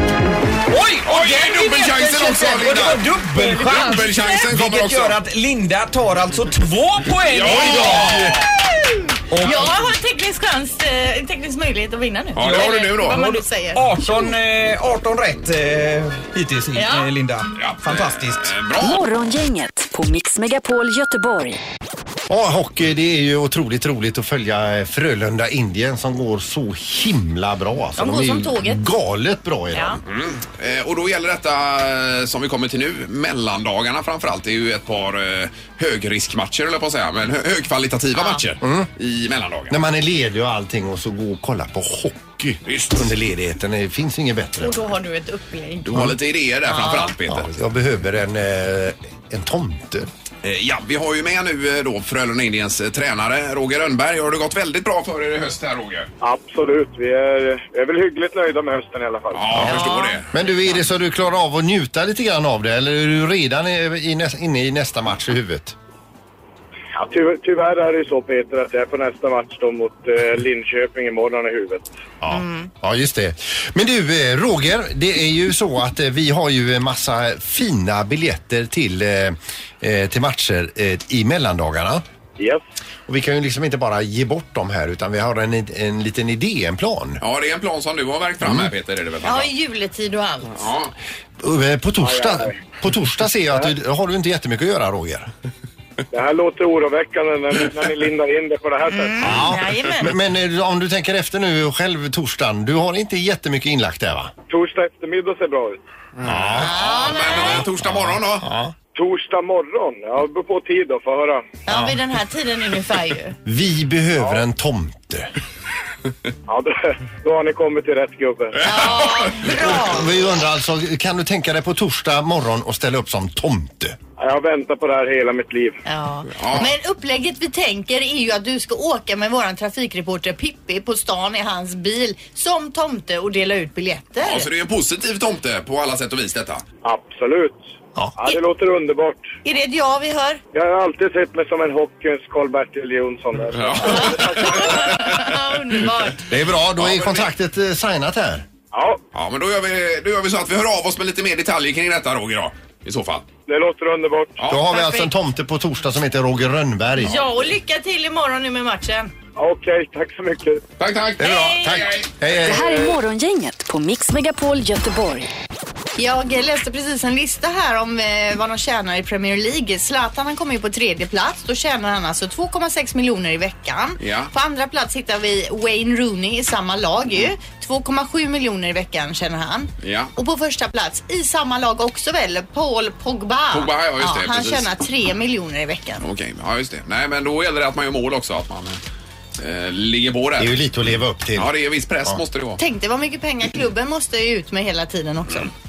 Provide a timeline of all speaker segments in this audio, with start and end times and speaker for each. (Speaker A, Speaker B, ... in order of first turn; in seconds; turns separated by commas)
Speaker A: 0.7-8.4, Speaker B: 1.1-3.0, Speaker C: 3.3-4.0, Speaker B: 3.6-5.2, Speaker B: 7.3-8.5, Speaker C: 8.5-14.3, Speaker A: 9.3-9.8, Speaker B: 12.3-13.3, Speaker A: 12.4-18.5, Speaker C: 16.8-17.1, Speaker B: 17.6-19.0, Speaker D: 18.8-21.6, Speaker E: 22.3-30.0, Speaker C: 28.0-28.9, Speaker C: 29.7-30.0, Speaker B: 30.1-39.8, Speaker C: 38.2-38.4, Speaker E: 38.6-38.9, Speaker E: 39.7-44.9, Speaker B: 42.7-43.1, Speaker C: 44.6-46.1, Speaker B: 45.9-47.7, Speaker C: 46.7-47.1, Speaker E: 47.3-50.1, Speaker B: 50.4-56.1, Speaker F: 56.2-59.6, Speaker B: 59.3-60.3, Speaker E: 59.5-59.8, Speaker C: 59.6-60.2, Speaker E: 60.3-65.8, Speaker F: 66.9-71.9, Speaker E: 72.2-82.0, Speaker C: 72.3-72.7, Speaker E: 83.1-87.2, Speaker B: 87.2-89.5, Speaker E: 88.4-88.7, Speaker C: 89.2-90.7, Speaker B: 90.5-90.9, Speaker E: 91.4-95.3, Speaker F: 92.0-92.6, Speaker F: 96.1-99.3, Speaker C: 98.9-100.2, Speaker E: 99.2-104.3, Speaker F: 104.5-105.8, Speaker B: 106.2-108.5, Speaker E: 106.2-106.8, Speaker C: 106.6-107.7, Speaker E: 107.3-108.7, Speaker F: 108.9-111.6, Speaker C: 111.7-113.4, Speaker E: 111.7-112.0, Speaker E: 113.5-115.3, Speaker F: 114.2-114.4, Speaker F: 116.5-118.6, Speaker B: 118.6-119.4, Speaker C: 118.6-120.2, Speaker E: 119.5-124.0, Speaker F: 124.2-125.8, Speaker C: 125.9-134.5, Speaker B: 126.3-126.7, Speaker B: 134.2-136.6, Speaker F: 136.8-137.6, Speaker F: 138.2-139.3, Speaker C: 139.4-140.4, Speaker F: 140.5-145.1, Speaker B: 143.5-145.4, Speaker C: 143.9-146.3, Speaker E: 146.3-148.5, Speaker B: 146.8-147.3, Speaker F: 148.7-149.0, Speaker B: 149.1-153.3, Speaker F: 153.5-154.4, Speaker B: 154.4-154.6, Speaker E: 154.5-157.2, Speaker C: 154.7-155.1, Speaker C: 157.0-159.1, Speaker F: 159.4-160.6, Speaker B: 160.8-162.1, Speaker E: 161.2-162.7, Speaker C: 161.2-161.9, Speaker D: 162.4-165.3, Speaker F: 162.6-163.0, Speaker C: 166.0-186.1, Speaker B: 174.0-174.3, Speaker B: 179.8-180.1, Speaker B: 183.5-184.7, Speaker B: 186.0-188.8, Speaker B: 189.4-190.6, Speaker E: 190.4-191.5, Speaker B: 191.4-192.6, Speaker C: 192.6-195.5